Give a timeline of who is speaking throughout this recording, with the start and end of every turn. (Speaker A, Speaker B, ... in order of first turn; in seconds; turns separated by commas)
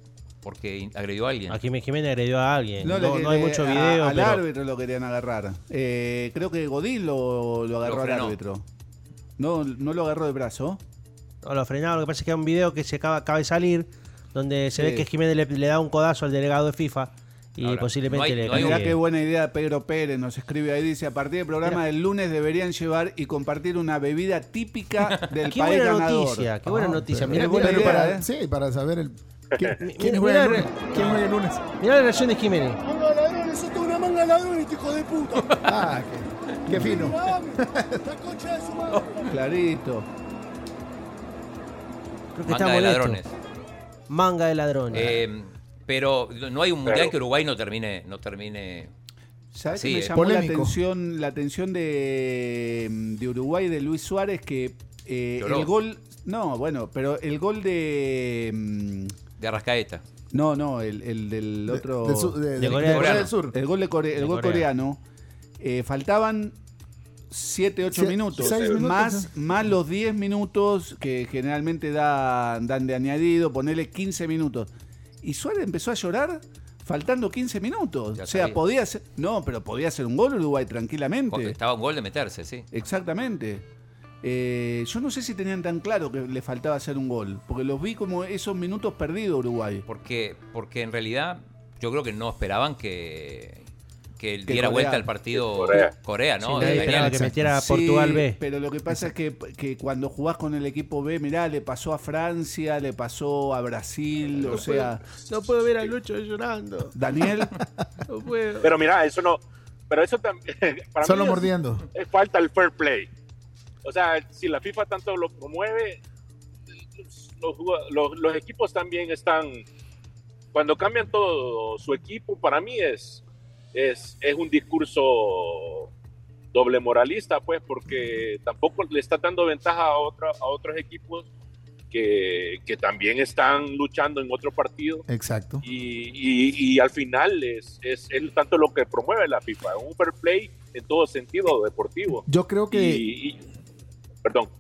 Speaker A: 0.4-1.6, Speaker B: 1.5-4.4, Speaker C: 2.8-8.6, Speaker A: 7.8-8.4, Speaker C: 9.4-10.8, Speaker B: 11.4-19.0, Speaker C: 14.8-15.1, Speaker A: 17.6-18.9, Speaker C: 18.5-26.6, Speaker B: 25.5-28.1, Speaker D: 26.7-31.6, Speaker C: 27.1-28.2, Speaker B: 29.8-31.2, Speaker B: 31.8-32.8, Speaker A: 35.3-35.6, Speaker D: 35.6-38.3, Speaker C: 36.8-37.0, Speaker C: 39.3-40.1, Speaker B: 42.4-43.2, Speaker A: 42.5-43.3, Speaker B: 44.1-45.2, Speaker A: 44.9-48.9, Speaker E: 46.9-47.1, Speaker C: 49.5-59.1, Speaker A: 49.7-50.1, Speaker D: 50.1-50.8, Speaker A: 55.4-55.7, Speaker A: 59.4-60.0, Speaker C: 60.3-62.4, Speaker D: 61.7-63.5, Speaker B: 62.6-63.3, Speaker A: 62.9-63.3, Speaker C: 63.5-65.0, Speaker B: 64.2-64.7, Speaker C: 65.6-66.5, Speaker C: 67.3-74.7, Speaker D: 67.9-69.3, Speaker E: 68.4-68.8, Speaker C: 75.2-81.6, Speaker A: 78.2-78.6, Speaker A: 81.3-82.7, Speaker C: 82.7-83.6, Speaker C: 84.2-89.8, Speaker A: 89.9-93.6, Speaker A: 94.2-97.3, Speaker C: 94.5-95.1, Speaker E: 95.4-95.9, Speaker B: 96.5-98.4, Speaker D: 96.6-97.5, Speaker C: 97.5-105.0, Speaker B: 104.5-107.0, Speaker C: 107.0-107.5, Speaker B: 108.1-108.7, Speaker E: 108.6-109.4, Speaker E: 109.9-113.1, Speaker D: 111.0-111.8, Speaker E: 113.8-116.0, Speaker E: 117.1-119.7, Speaker E: 120.5-123.2, Speaker E: 123.7-125.9, Speaker E: 126.5-131.3, Speaker E: 131.9-135.0, Speaker D: 135.1-135.6, Speaker E: 135.6-143.4, Speaker D: 142.3-143.1, Speaker E: 144.2-144.5